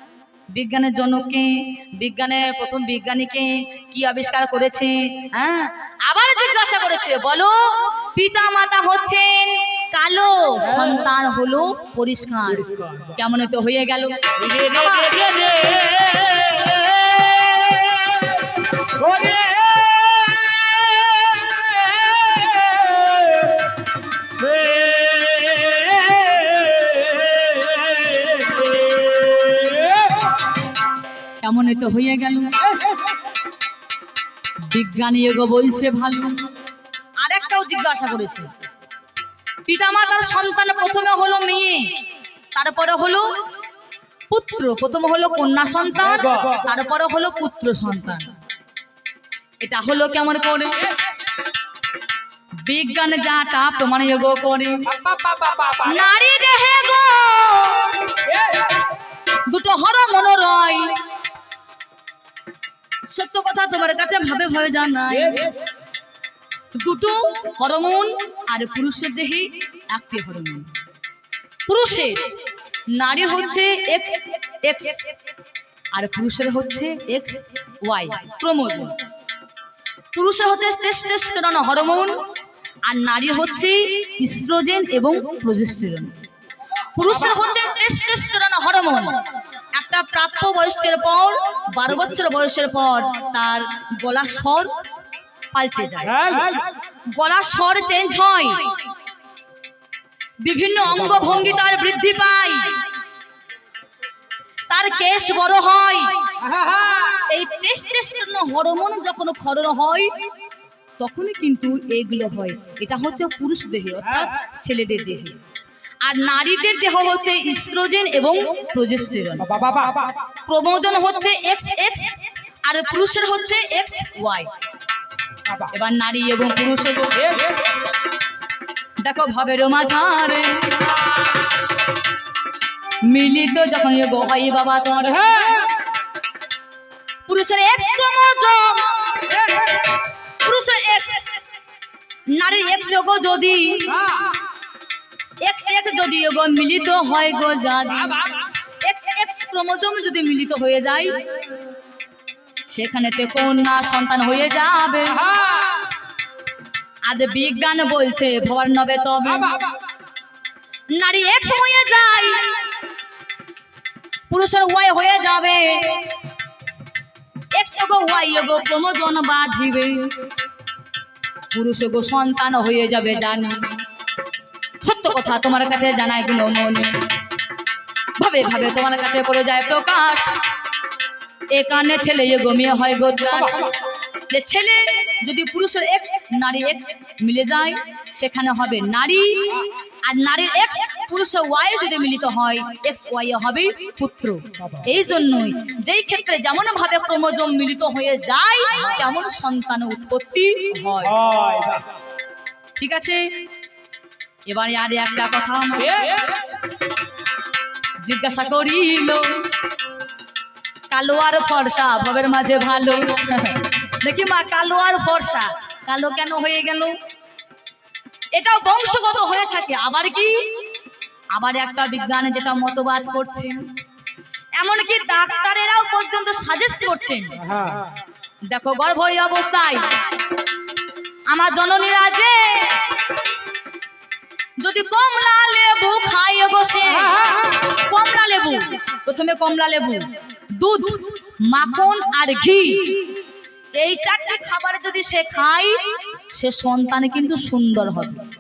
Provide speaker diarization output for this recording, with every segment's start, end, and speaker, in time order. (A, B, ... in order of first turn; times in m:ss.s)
0:00.5-0:15.2 A
0:14.4-0:23.6 B
0:24.4-0:30.1 B
0:31.4-0:32.6 A
0:34.7-0:36.5 A
0:37.2-0:38.5 A
0:39.7-0:42.0 A
0:42.5-0:43.3 A
0:44.3-0:48.3 A
0:49.6-0:50.8 A
0:52.6-0:54.9 A
0:55.0-0:55.8 B
0:55.8-0:58.2 A
0:58.3-0:58.6 B
0:59.4-1:01.0 A
1:03.1-1:05.5 A
1:06.7-1:10.7 A
1:11.6-1:12.4 A
1:12.9-1:15.1 A
1:15.9-1:19.0 A
1:20.1-1:22.2 A
1:22.8-1:26.1 A
1:26.9-1:29.2 A
1:29.7-1:34.7 A
1:35.5-1:36.3 A
1:36.2-1:36.6 B
1:37.1-1:38.8 A
1:40.4-1:42.8 A
1:44.7-1:46.3 A
1:46.5-1:47.1 B
1:47.2-1:50.1 A
1:51.0-1:55.4 A
1:56.0-1:59.6 A
1:59.6-2:00.0 B
2:00.4-2:04.5 A
2:05.6-2:07.4 A
2:09.0-2:10.9 A
2:13.0-2:15.6 A
2:17.2-2:19.3 A
2:20.4-2:21.3 A
2:22.3-2:24.1 A
2:25.4-2:28.3 A
2:28.8-2:31.2 A
2:32.7-2:35.4 A
2:37.0-2:39.6 A
2:40.9-2:42.6 A
2:44.3-2:46.2 A
2:47.5-2:50.1 A
2:51.5-2:53.7 A
2:54.8-2:57.0 A
2:58.2-3:00.4 A
3:01.5-3:03.7 A
3:04.3-3:21.2 A
3:21.2-3:21.8 B
3:22.8-3:23.4 A
3:24.4-3:26.0 A
3:25.8-3:26.4 B
3:28.0-3:29.4 A
3:30.9-3:36.9 A
3:38.3-3:40.7 A
3:41.3-3:43.6 A
3:44.6-3:47.4 A
3:48.5-3:50.0 A
3:51.3-3:52.9 A
3:54.6-4:03.2 A
4:03.7-4:08.2 A